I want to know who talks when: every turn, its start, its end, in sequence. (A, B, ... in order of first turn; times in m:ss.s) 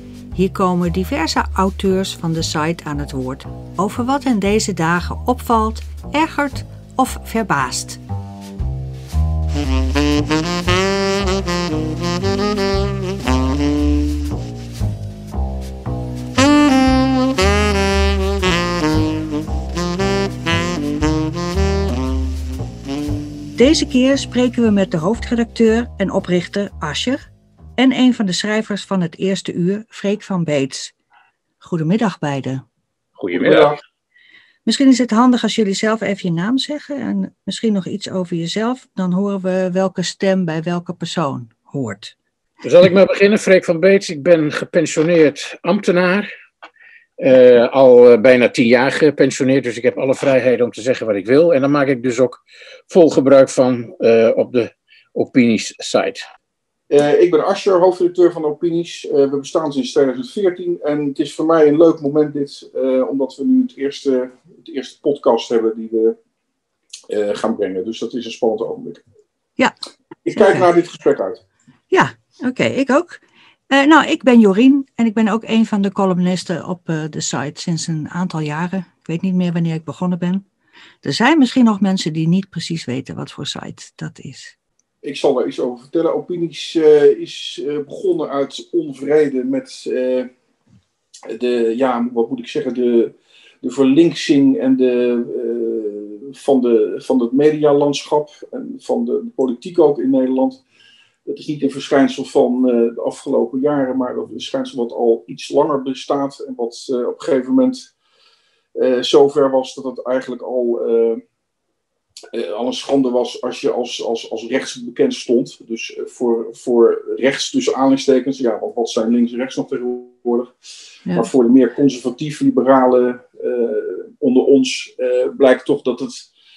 0:00.3-0:08.0 A
0:23.6-0:27.2 A
0:27.8-0:31.0 A
0:31.6-0:32.6 A
0:33.2-0:33.8 B
0:33.3-0:33.8 C
0:34.6-0:42.1 A
0:42.6-0:46.3 B
0:47.2-0:56.2 B
0:56.9-1:06.2 C
1:07.1-1:09.0 C
1:10.2-1:11.4 C
1:10.3-1:10.7 A
1:11.9-1:20.4 A
1:21.0-1:24.6 A
1:25.0-1:30.3 C
1:31.3-1:40.6 C
1:41.3-1:47.9 C
1:48.8-1:51.2 C
1:52.3-2:00.5 C
2:01.1-2:06.3 C